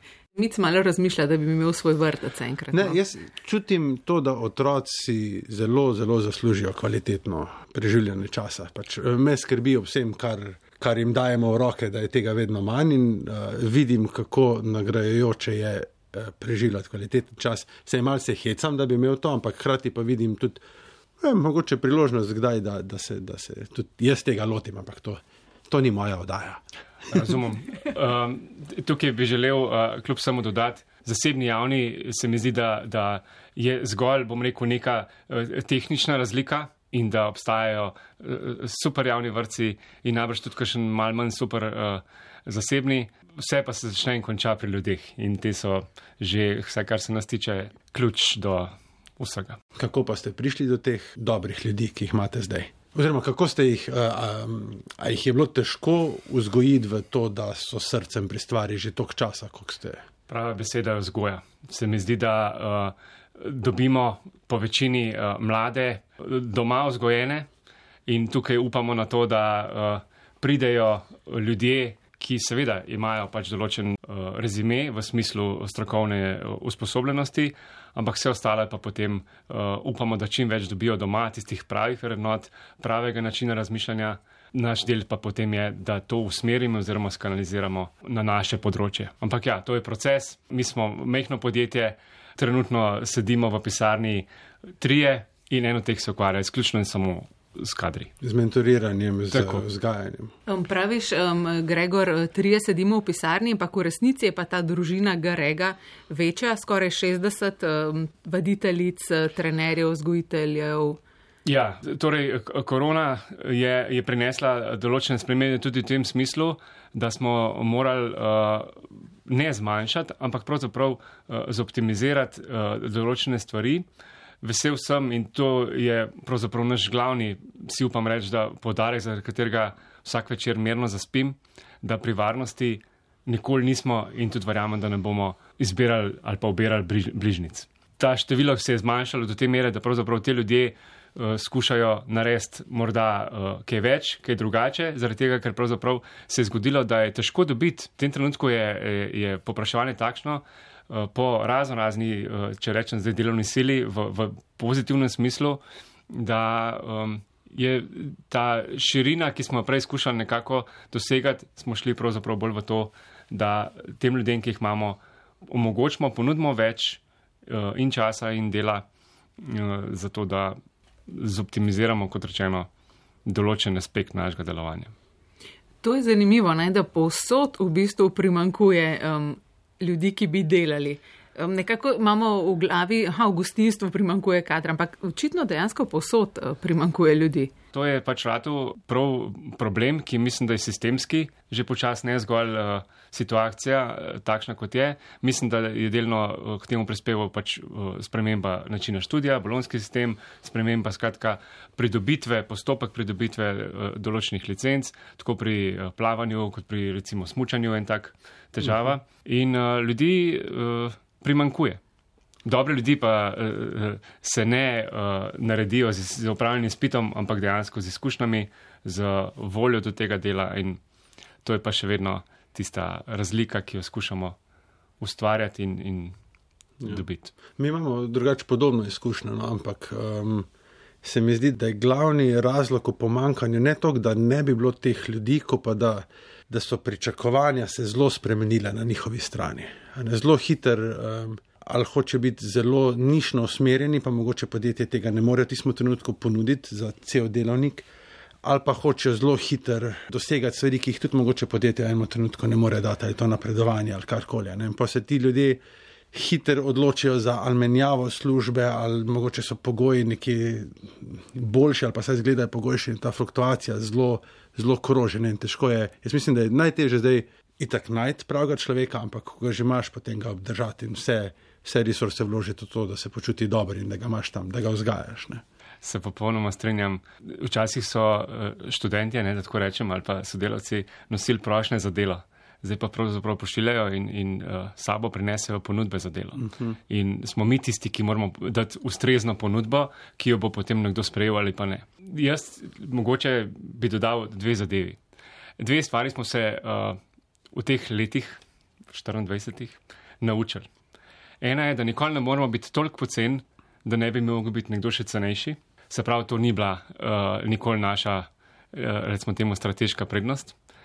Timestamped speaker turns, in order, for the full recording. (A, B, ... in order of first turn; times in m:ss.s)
0:00.4-0:03.0 A
0:02.7-0:20.6 B
0:21.2-0:27.4 B
0:27.1-0:49.6 C
0:49.8-1:00.0 B
1:00.3-1:07.5 C
1:08.1-1:34.3 C
1:34.8-1:38.1 C
1:38.2-1:40.3 B
1:39.3-1:39.6 C
1:40.5-1:51.0 A
1:51.5-2:03.9 C
2:04.4-2:48.9 C
2:49.4-2:50.6 C
2:51.1-2:52.7 C
2:53.3-2:54.9 C
2:55.8-3:07.5 A
3:07.7-3:31.8 C
3:32.4-3:40.8 C
3:41.4-3:44.4 C
3:45.0-3:46.2 C
3:46.8-3:47.4 C
3:47.6-3:50.5 B
3:51.0-4:07.9 B
4:08.4-4:15.6 B
4:16.1-4:35.4 B
4:35.8-4:55.0 C
4:46.4-4:46.8 B
4:55.6-4:57.0 C
4:57.5-5:00.7 C
5:01.4-5:10.6 C